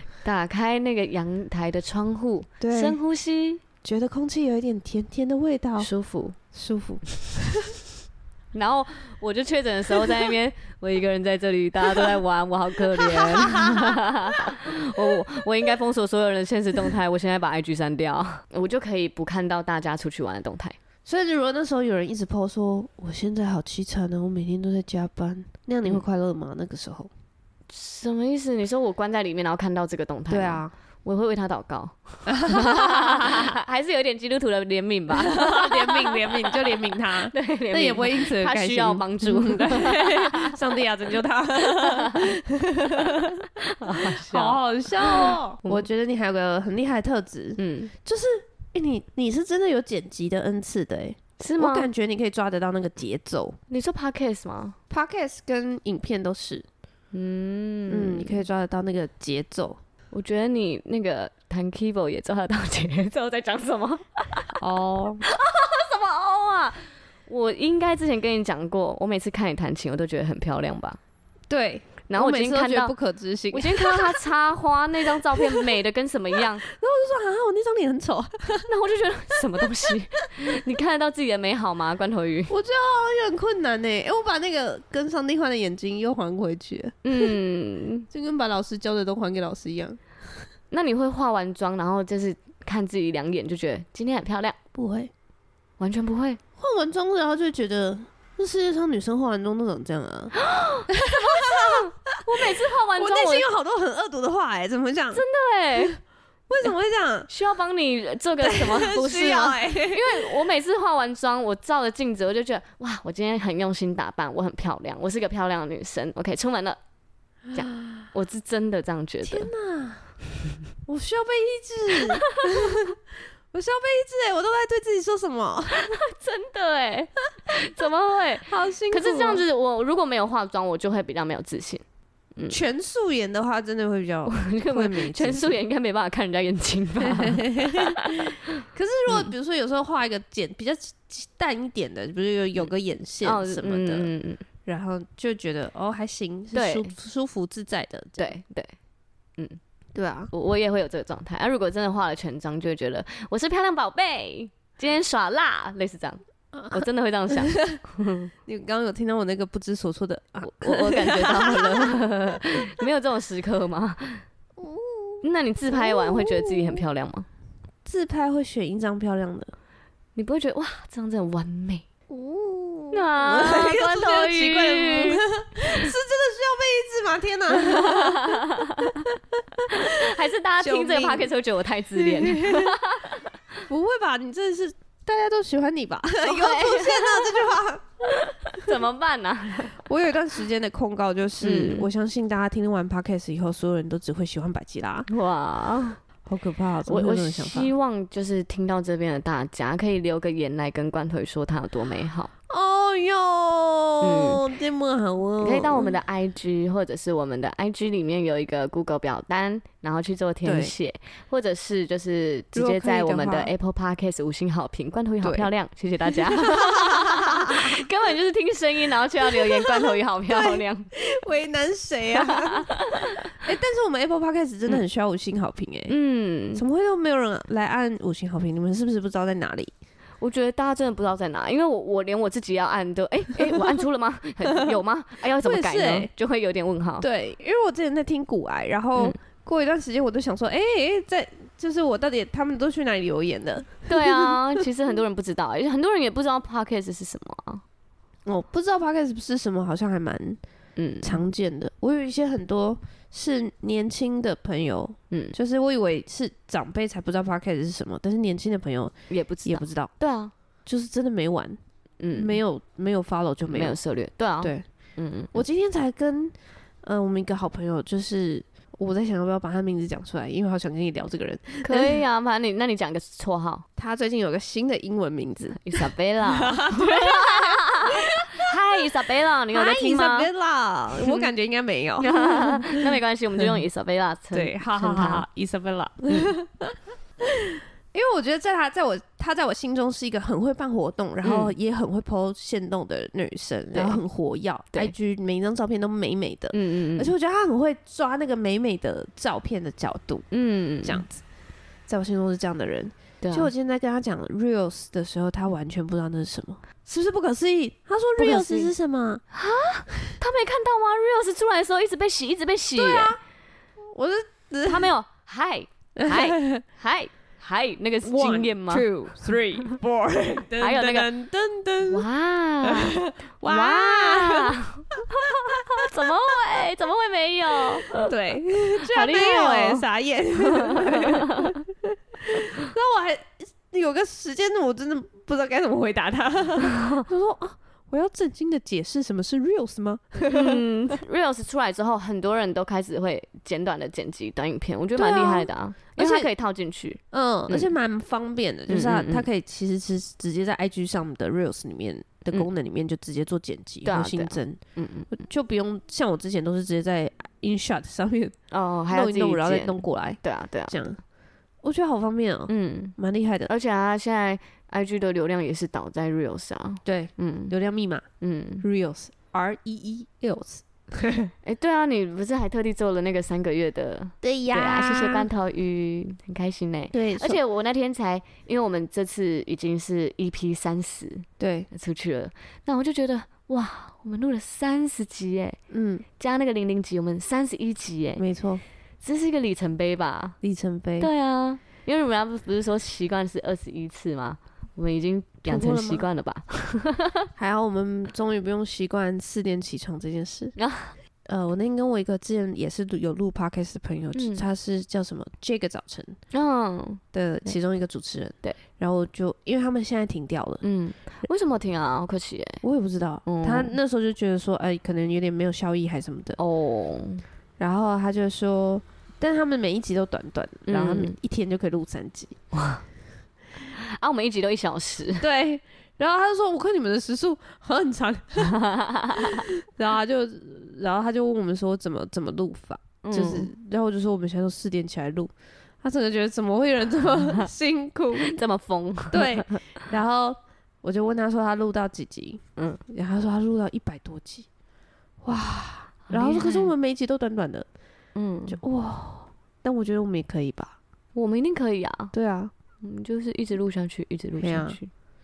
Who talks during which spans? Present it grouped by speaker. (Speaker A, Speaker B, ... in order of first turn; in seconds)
Speaker A: 0.2-3.6, 5.8-6.4, 8.5-20.8, 27.7-36.8, 37.3-40.5, 41.6-42.2, 43.6-45.8, 47.6-47.9, 51.4-51.9, 53.7-54.8, 57.1-58.4, 60.1-64.5, 65.2-71.0, 72.1-72.9, 73.5-76.6, 78.7-82.5, 87.0-88.1, 90.7-94.6, 95.8-96.4, 100.3-103.5, 105.1-106.0, 107.3-116.8, 117.5-119.5, 125.7-131.8, 134.3-138.3, 139.1-139.3, 143.2-144.4, 146.5-146.9, 148.2-148.7, 150.3-156.2, 156.7-158.3, 160.4-164.2, 165.2-167.3, 170.2-171.9, 172.9-175.2, 177.5-179.1, 179.7-183.3, 186.2-189.8, 191.4-191.9, 195.1-196.0, 196.9-202.3, 204.0-204.4, 205.4-220.9, 222.2-223.2, 225.9-226.6, 230.2-237.1, 243.9-247.6, 250.8-251.2, 255.1-255.3, 259.1-260.3, 262.0-262.4, 263.5-265.4, 271.6-273.6, 275.6-280.3, 282.0-285.2, 286.1-286.3, 291.2-291.5, 293.7-294.0, 296.5-297.1, 300.3-301.0, 303.2-303.5, 308.2-308.7, 309.3-313.1, 314.6-318.9, 320.6-321.1, 321.9-328.1, 328.8-329.9, 330.4-331.6, 336.8-337.0, 340.2-347.7, 348.7-349.2, 353.8-355.1, 358.5-360.8, 362.5-362.9, 363.5-367.5, 368.2-368.6, 371.4-385.6, 386.2-388.2, 389.0-390.4, 391.0-397.3, 400.6-400.9, 404.1-404.4, 406.3-407.5, 410.6-412.6, 413.2-413.8, 416.4-417.2, 420.7-421.1, 422.5-422.8, 423.7-425.2, 428.4-429.5, 433.0-433.5, 438.2-439.6, 446.1-446.7, 448.1-448.6, 451.1-452.1, 452.8-454.9
Speaker B: 2.6-3.0, 3.8-5.9, 6.5-7.7, 12.9-13.9, 21.1-27.1, 30.3-30.7, 32.3-33.4, 35.2-53.6, 54.9-56.6, 57.9-59.8, 64.6-65.2, 71.5-74.2, 75.0-75.8, 76.3-78.7, 79.6-79.9, 82.5-87.3, 88.1-90.0, 94.7-95.1, 96.6-100.3, 100.9-105.2, 106.5-107.3, 108.4-110.3, 119.2-120.1, 120.8-123.0, 123.5-125.9, 128.5-129.4, 132.5-135.6, 137.0-144.1, 144.6-148.3, 149.9-150.3, 156.5-157.8, 158.4-162.0, 164.6-166.8, 167.8-169.5, 172.1-181.3, 181.9-182.8, 183.7-187.9, 189.7-195.1, 196.2-197.7, 202.5-205.9, 210.4-210.7, 212.5-213.5, 215.2-215.5, 216.3-217.8, 219.3-225.9, 226.5-229.7, 235.4-236.1, 237.0-244.3, 248.2-250.4, 251.0-259.9, 260.6-261.6, 262.1-263.8, 265.3-272.0, 273.8-278.8, 279.5-283.5, 284.3-300.3, 300.8-301.2, 301.9-309.2, 312.8-313.2, 313.8-314.9, 315.9-316.6, 318.0-322.0, 322.6-326.0, 327.9-340.6, 344.9-346.3, 347.1-354.6, 355.1-358.4, 358.9-361.0, 361.6-363.5, 366.8-368.1, 368.6-371.3, 374.2-375.3, 376.9-377.4, 381.4-381.7, 385.7-386.0, 388.2-388.6, 390.4-391.1, 395.4-396.0, 397.4-400.5, 401.3-406.2, 407.1-410.6, 412.6-416.4, 417.6-422.4, 425.2-428.6, 429.2-438.3, 439.1-444.5, 445.2-447.7, 448.5-450.7, 452.1-452.5, 454.4-454.8